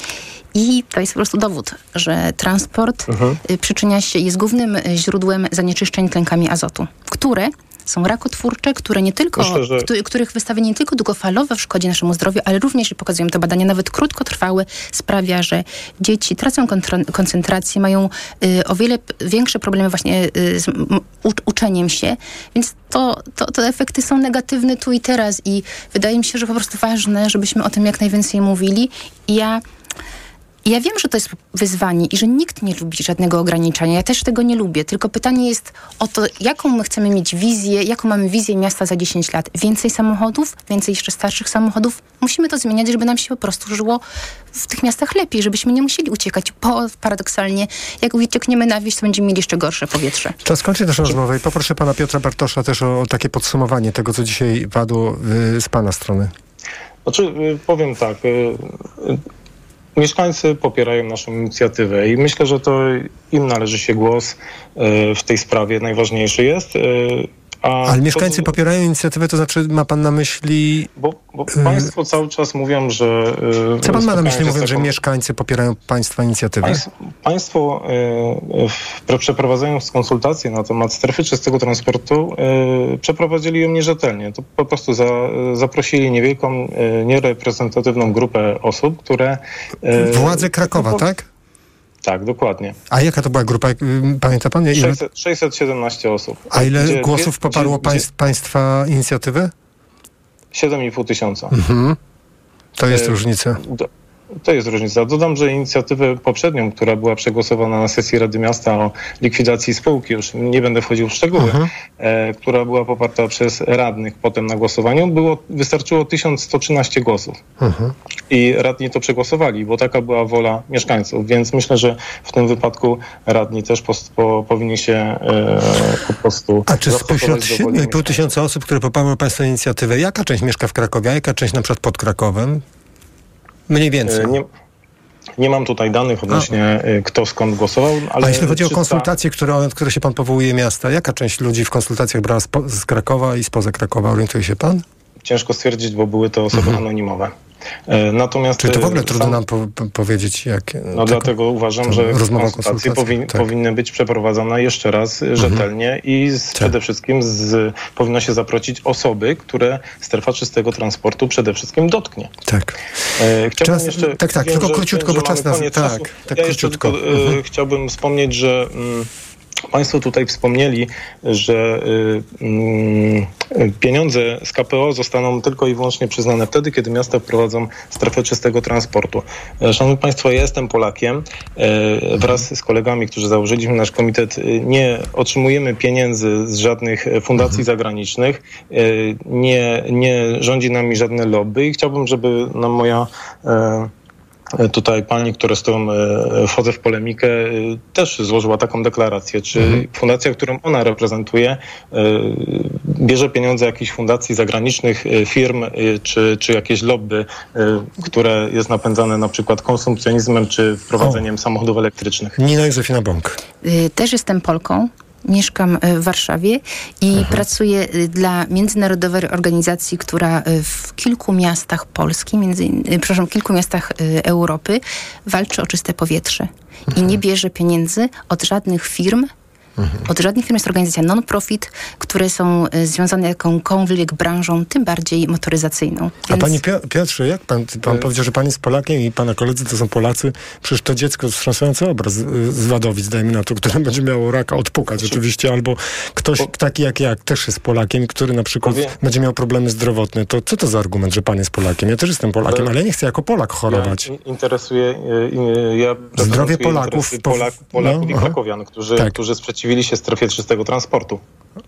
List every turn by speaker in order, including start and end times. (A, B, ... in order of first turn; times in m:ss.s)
0:00.5-0:29.6 A
0:03.1-0:03.4 B
0:09.4-0:09.9 B
0:30.6-0:44.0 A
0:44.5-0:50.4 A
0:50.4-0:56.3 C
0:57.1-0:59.2 B
1:00.0-1:08.5 B
1:07.9-1:10.9 C
1:11.0-1:14.9 B
1:11.6-1:11.9 C
1:13.8-1:16.9 C
1:16.6-1:31.0 B
1:30.0-1:31.3 C
1:32.0-1:32.8 B
1:32.9-1:35.0 C
1:34.7-1:38.0 B
1:36.5-1:39.5 C
1:40.5-1:41.6 B
1:41.5-1:42.0 C
1:42.8-1:43.6 C
1:42.9-1:43.9 B
1:44.4-1:57.4 B
1:51.4-1:51.7 C
1:57.6-1:58.0 C
1:58.3-2:08.3 B
2:06.7-2:12.6 C
2:13.7-2:14.4 C
2:14.1-2:14.5 B
2:15.4-2:19.1 B
2:18.2-2:24.8 C
2:25.2-2:27.3 B
2:26.5-2:26.8 C
2:27.9-2:29.4 B
2:28.6-2:31.3 C
2:31.0-2:42.3 B
2:31.8-2:33.4 C
2:35.4-2:35.6 C
2:42.4-2:42.8 C
2:43.2-2:49.1 B
2:43.6-2:47.4 C
2:49.7-3:13.9 B
3:14.6-3:32.4 B
3:19.6-3:19.8 C
3:31.0-3:31.2 C
3:32.4-3:33.4 C
3:33.6-3:49.3 A
3:37.2-3:37.4 C
3:49.8-3:50.1 C
3:50.1-3:56.6 A
3:56.3-4:14.1 C
4:08.6-4:08.9 B
4:13.7-4:21.2 B
4:16.2-4:18.4 C